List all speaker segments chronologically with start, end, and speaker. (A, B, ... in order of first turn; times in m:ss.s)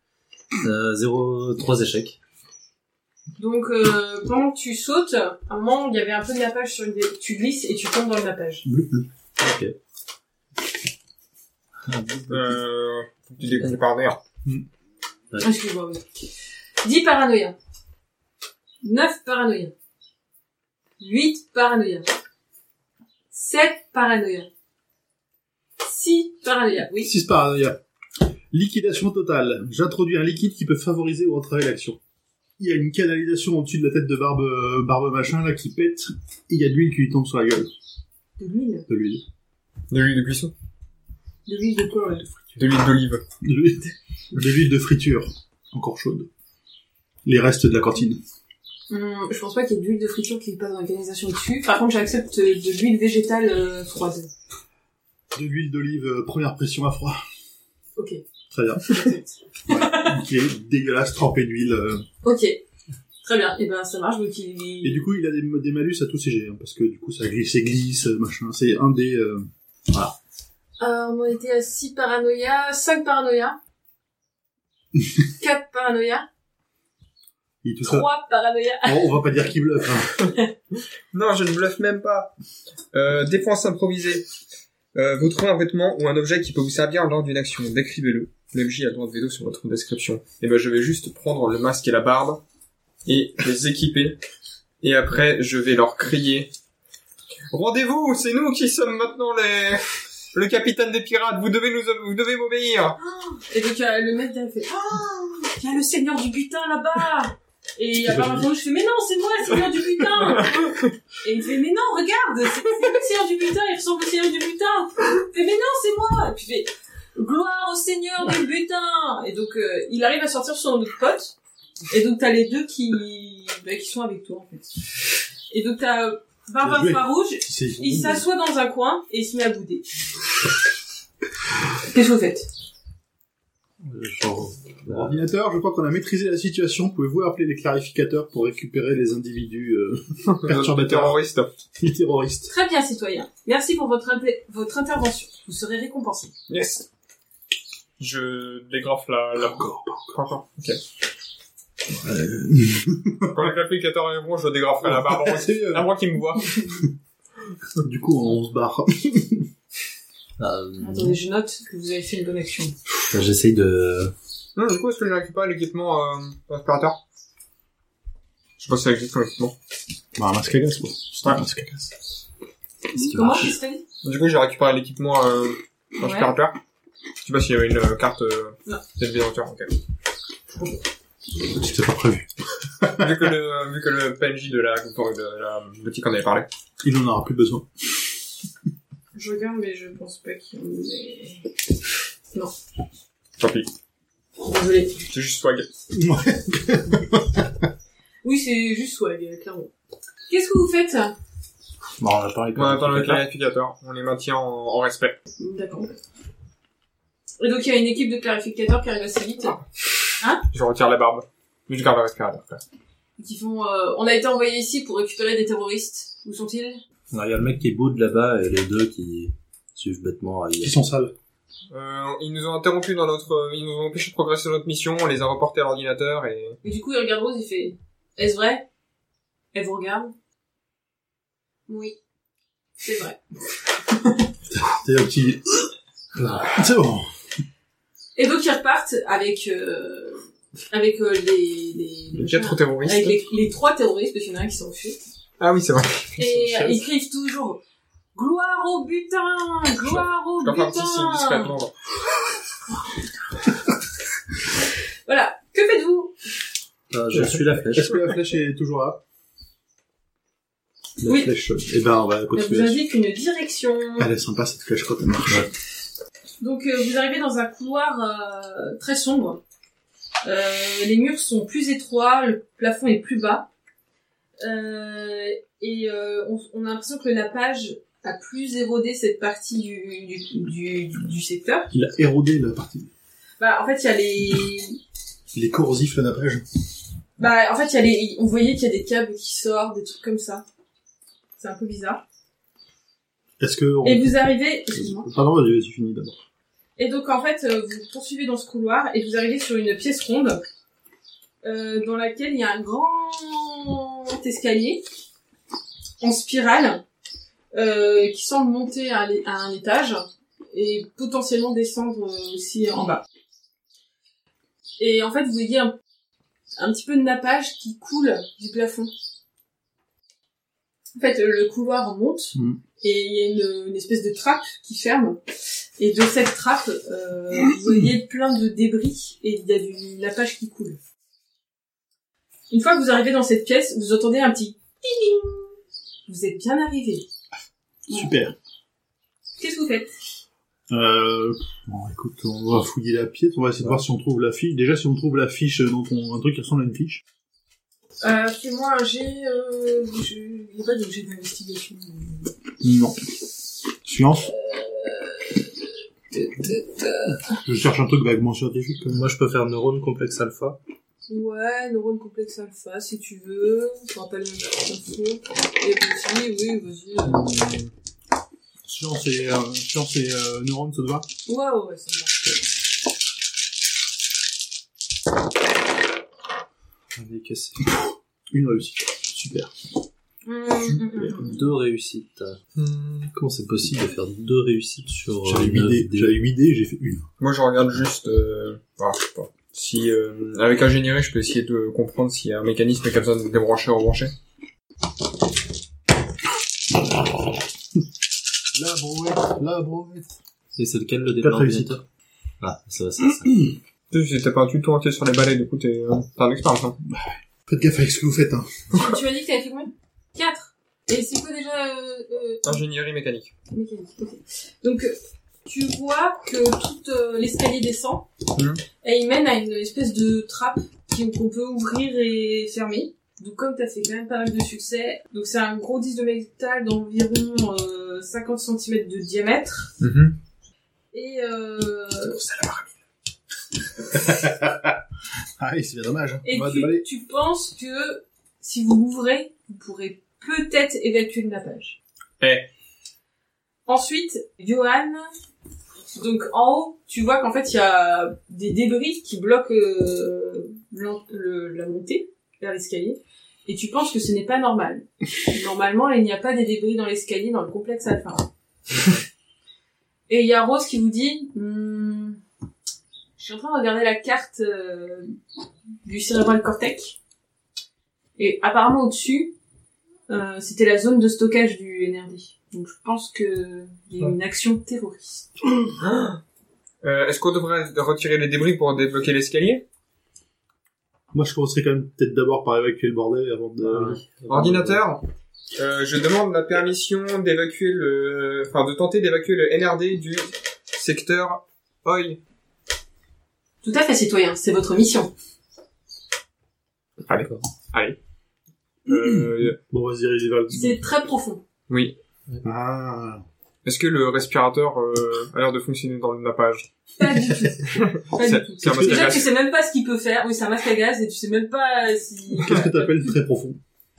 0:00.6-0:02.2 A
0:03.4-0:08.6 B
0:08.6-0:09.1 C
0:09.4-0:09.8 A
0:11.9-0:12.6 A
0:12.3-0:14.2 D
0:13.4-0:13.8 A
0:15.4-0:16.1 B
0:16.8-0:17.6 B
0:18.8-0:19.7 B
0:21.0-0:22.1 B
0:23.3-0:24.5 B
0:25.8-0:27.1 B
0:27.0-0:27.8 C
0:28.5-0:32.0 C
0:32.6-0:37.7 C
0:38.4-0:38.9 B
0:38.9-0:39.2 C
0:39.9-0:40.5 D
0:41.5-0:42.3 B
0:42.6-0:43.2 D
0:43.4-0:46.3 C
0:47.2-0:48.2 C
0:48.9-0:54.3 B
0:55.3-0:57.2 C
0:58.0-0:58.2 B
0:58.5-0:59.1 C
0:58.9-1:00.2 B
0:59.7-1:02.0 C
1:02.2-1:02.6 B
1:03.2-1:05.0 B
1:04.8-1:09.5 C
1:10.8-1:13.6 B
1:15.4-1:16.3 B
1:17.6-1:18.1 C
1:17.8-1:19.2 B
1:18.8-1:20.1 C
1:21.1-1:22.3 D
1:22.9-1:24.3 D
1:24.9-1:32.4 D
1:33.1-1:34.2 D
1:34.8-1:36.5 D
1:37.5-1:43.0 D
1:43.0-2:01.4 B
1:48.1-1:48.4 C
1:50.3-1:50.9 D
2:01.9-2:04.7 B
2:05.5-2:09.9 B
2:06.6-2:08.2 C
2:11.9-2:12.5 B
2:13.8-2:15.2 A
2:14.9-2:21.2 C
2:20.3-2:21.5 D
2:21.8-2:22.5 C
2:22.5-2:26.3 B
2:26.5-2:26.8 D
2:28.0-2:30.8 D
2:29.4-2:30.2 C
2:31.9-2:33.6 C
2:33.3-2:36.6 D
2:34.8-2:35.9 C
2:37.8-2:39.5 C
2:40.4-2:41.2 A
2:40.8-2:42.8 B
2:43.0-2:44.1 A
2:44.6-2:47.0 D
2:48.6-2:49.5 D
2:50.2-2:51.9 C
2:52.9-2:53.5 A
2:53.0-2:53.8 B
2:54.0-2:56.6 D
2:56.0-2:56.3 B
2:57.2-2:59.7 D
3:01.4-3:03.4 C
3:03.0-3:06.5 D
3:06.8-3:07.7 C
3:09.1-3:11.4 B
3:13.4-3:13.7 D
3:14.4-3:15.0 B
3:15.1-3:15.7 D
3:15.9-3:17.6 C
3:18.2-3:19.7 B
3:20.3-3:21.2 B
3:22.0-3:23.2 A
3:22.6-3:25.2 D
3:25.4-3:26.0 B
3:27.4-3:29.6 B
3:30.5-3:32.6 D
3:33.2-3:36.8 B
3:37.1-3:40.8 A
3:40.6-3:41.1 C
3:41.7-3:46.6 D
3:46.6-3:48.6 B
3:49.5-3:50.1 B
3:51.7-3:52.0 B
3:52.8-3:53.2 B
3:53.9-3:54.3 B
3:54.5-3:55.7 C
3:56.2-3:56.6 A
3:56.5-3:57.1 C
3:58.2-4:05.0 B
4:02.2-4:03.2 D
4:05.4-4:06.6 D
4:06.2-4:07.6 B
4:08.2-4:11.6 B
4:09.9-4:11.7 D
4:15.1-4:16.2 B
4:16.9-4:18.0 A
4:17.1-4:19.0 C
4:21.0-4:22.8 C
4:21.1-4:21.3 B
4:22.4-4:24.1 B
4:24.0-4:25.5 C
4:26.4-4:29.4 B
4:30.2-4:33.5 B
4:34.4-4:41.7 B
4:41.7-4:42.9 C
4:43.4-4:44.8 B
4:45.3-4:46.4 C
4:47.2-4:50.4 B
4:51.4-4:52.0 B
4:53.4-4:56.2 C
4:53.8-4:55.1 B
4:56.8-5:00.4 B
5:01.4-5:04.8 B
5:06.0-5:06.8 B
5:07.5-5:13.0 B
5:14.8-5:15.8 B
5:16.6-5:18.9 B
5:21.0-5:25.2 B
5:22.4-5:22.6 C
5:25.8-5:30.8 B
5:32.5-5:35.5 B
5:36.1-5:37.1 B
5:37.9-5:38.4 C
5:39.4-5:39.9 B
5:40.7-5:47.0 C
5:48.0-5:52.3 B
5:52.6-5:53.0 C
5:53.8-5:54.3 C
5:54.3-5:55.5 B
5:56.1-5:57.2 B
5:57.4-5:59.1 C
5:58.9-6:00.6 A
6:01.1-6:07.3 B
6:08.6-6:11.1 C
6:11.3-6:12.1 B
6:17.0-6:17.6 A
6:17.7-6:19.5 C
6:20.2-6:21.4 B
6:20.6-6:21.4 C
6:21.2-6:22.4 A
6:22.6-6:23.1 D
6:23.1-6:26.2 A
6:25.2-6:27.1 C
6:27.2-6:34.1 D
6:38.5-6:40.1 C
6:40.6-6:41.8 A
6:41.2-6:41.8 C
6:42.4-6:43.5 A
6:43.9-6:46.8 D
6:46.8-6:48.6 C
6:48.7-6:52.6 B
6:52.4-6:53.3 D
6:53.5-6:58.1 B
6:58.4-6:58.6 D
6:58.8-7:09.7 B
7:09.8-7:10.2 D
7:10.9-7:12.2 B
7:12.2-7:12.6 D
7:13.9-7:14.8 C
7:15.4-7:16.8 C
7:16.2-7:21.8 B
7:22.2-7:22.5 D
7:23.7-7:25.1 B
7:26.0-7:38.3 B
7:40.1-7:42.2 B
7:43.2-7:45.2 B
7:45.8-7:47.0 B
7:48.2-7:49.4 B
7:50.1-7:55.3 B
7:55.8-7:56.2 D
7:56.8-7:59.6 D
8:01.1-8:04.0 C
8:03.6-8:04.8 A
8:04.3-8:05.0 D
8:05.6-8:12.2 D
8:13.6-8:15.1 B
8:17.1-8:18.0 D
8:18.9-8:19.6 D
8:18.9-8:20.8 C
8:20.5-8:21.4 B
8:21.7-8:22.0 D
8:22.4-8:23.2 C
8:23.6-8:26.7 D
8:27.0-8:33.1 B
8:27.7-8:29.3 D
8:28.6-8:29.2 C
8:32.3-8:33.6 C